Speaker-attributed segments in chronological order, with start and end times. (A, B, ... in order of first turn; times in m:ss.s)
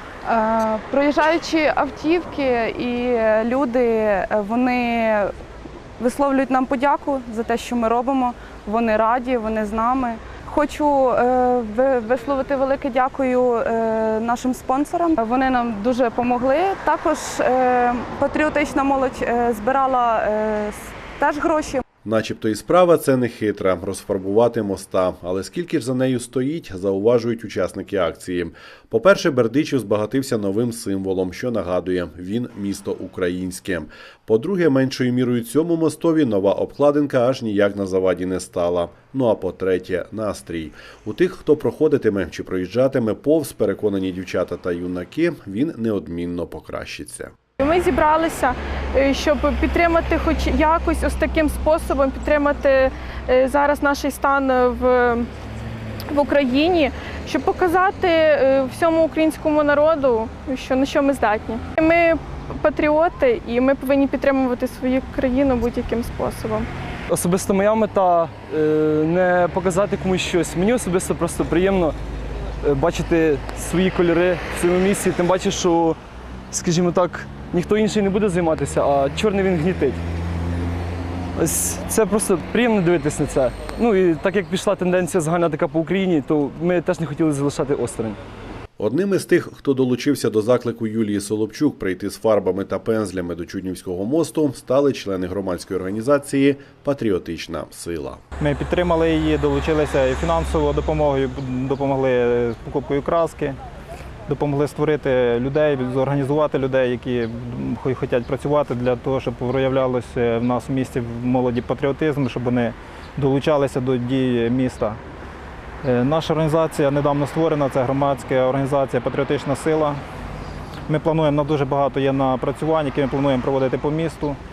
0:00.2-0:05.3 A
0:06.0-0:21.8 A
0:22.0-0:47.3 B
0:47.6-0:55.3 C
0:56.1-1:06.7 C
1:07.1-1:12.0 D
1:12.6-1:16.0 D
1:16.5-1:20.0 D
1:21.4-1:28.2 D
1:28.8-1:38.2 B
1:38.4-1:43.6 E
1:44.3-1:55.0 E
1:55.8-2:00.0 E
2:00.9-2:04.4 E